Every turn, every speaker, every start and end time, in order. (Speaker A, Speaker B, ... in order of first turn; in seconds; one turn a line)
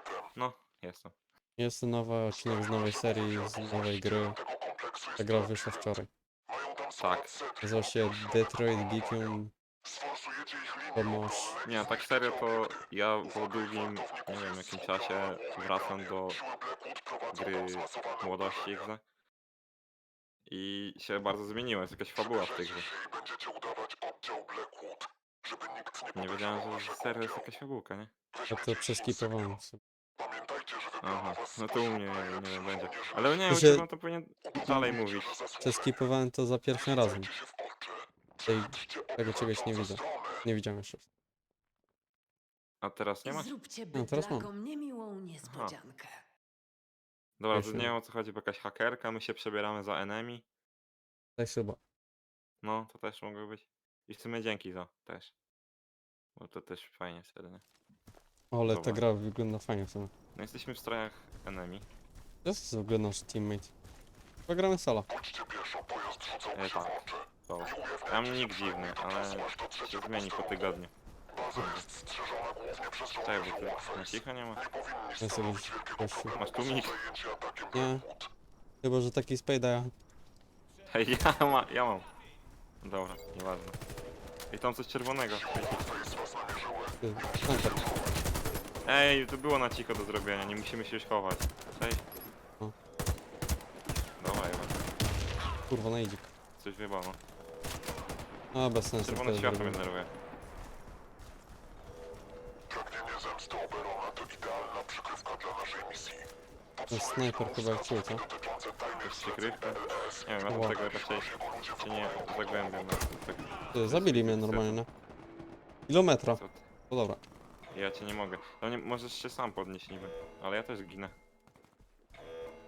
Speaker A: 0.4-1.1
Speaker B: 1.6-4.4
Speaker B: 5.1-6.1
Speaker A: 7.0-7.4
Speaker B: 7.6-9.5
Speaker B: 10.9-11.6
Speaker A: 11.6-16.4
Speaker A: 17.3-19.0
Speaker A: 20.5-22.9
Speaker A: 26.1-28.1
Speaker B: 28.5-29.8
Speaker A: 31.0-35.4
Speaker B: 33.5-33.9
Speaker B: 34.7-35.0
Speaker B: 35.6-37.3
Speaker B: 38.5-41.0
Speaker A: 42.8-43.5
Speaker C: 43.2-46.2
Speaker B: 43.9-44.5
Speaker A: 45.4-45.8
Speaker A: 47.4-50.4
Speaker B: 47.5-47.9
Speaker B: 51.4-51.8
Speaker A: 52.6-55.3
Speaker A: 56.4-57.6
Speaker B: 58.5-60.1
Speaker A: 58.6-59.0
Speaker A: 60.3-61.9
Speaker B: 62.4-63.7
Speaker B: 64.5-65.1
Speaker A: 66.5-70.9
Speaker A: 71.5-71.9
Speaker A: 73.2-74.6
Speaker B: 75.2-76.3
Speaker A: 76.3-77.0
Speaker B: 77.7-78.1
Speaker B: 78.8-79.9
Speaker A: 80.9-82.1
Speaker A: 82.8-83.8
Speaker A: 84.5-85.9
Speaker B: 87.0-87.8
Speaker A: 88.8-92.0
Speaker A: 94.2-94.8
Speaker B: 95.7-96.3
Speaker A: 96.6-97.2
Speaker B: 98.5-99.8
Speaker A: 99.0-100.1
Speaker B: 106.9-108.2
Speaker A: 109.0-114.8
Speaker B: 110.5-110.8
Speaker B: 113.7-114.9
Speaker B: 115.9-117.2
Speaker A: 116.3-116.6
Speaker A: 117.7-121.1